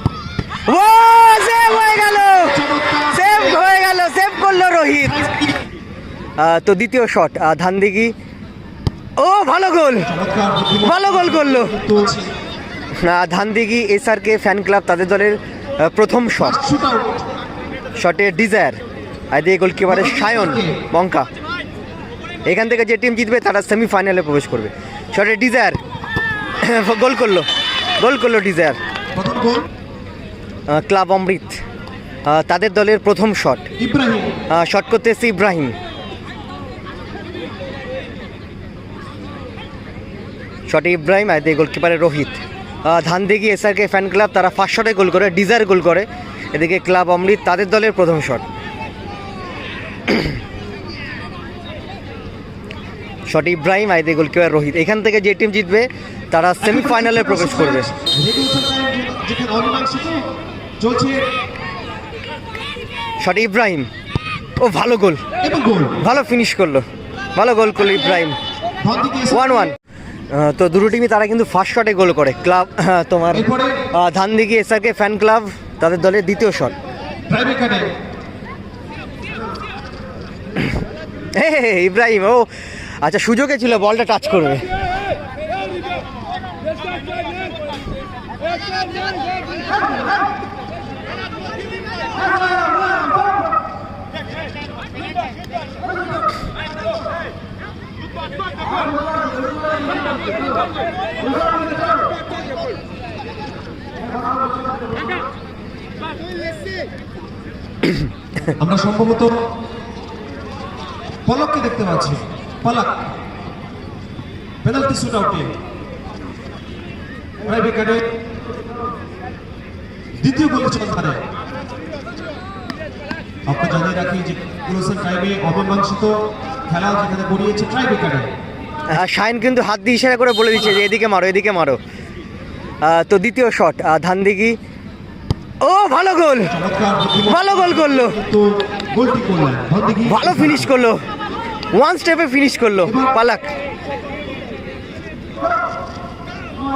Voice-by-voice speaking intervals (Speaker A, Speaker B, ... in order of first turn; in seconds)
Speaker A: 0.7-5.3, 6.4-8.1, 9.2-10.1, 10.8-11.7, 13.0-16.6, 17.9-18.8, 19.3-21.3, 22.4-25.8, 26.6-27.4, 28.0-28.8, 30.7-31.6, 32.2-33.7, 34.5-35.7, 40.7-48.4, 53.3-57.9, 63.2-63.9, 64.6-65.2, 66.0-68.4, 69.3-69.8, 70.3-76.7, 81.3-82.5, 83.0-84.6, 128.9-131.8, 132.8-134.6, 135.6-136.5, 137.3-138.2, 140.1-141.0, 141.7-143.5
Speaker B: 2.5-3.4, 5.0-5.6, 10.1-12.3, 16.4-17.2, 19.9-20.8, 29.1-29.7, 33.8-34.4, 56.6-60.3, 60.8-61.3, 65.4-66.1, 68.8-69.7, 73.3-73.9, 77.3-77.9, 108.5-109.4, 111.2-113.1, 114.6-115.5, 117.5-118.1, 120.2-121.2, 123.5-128.3, 136.5-140.7, 142.9-143.2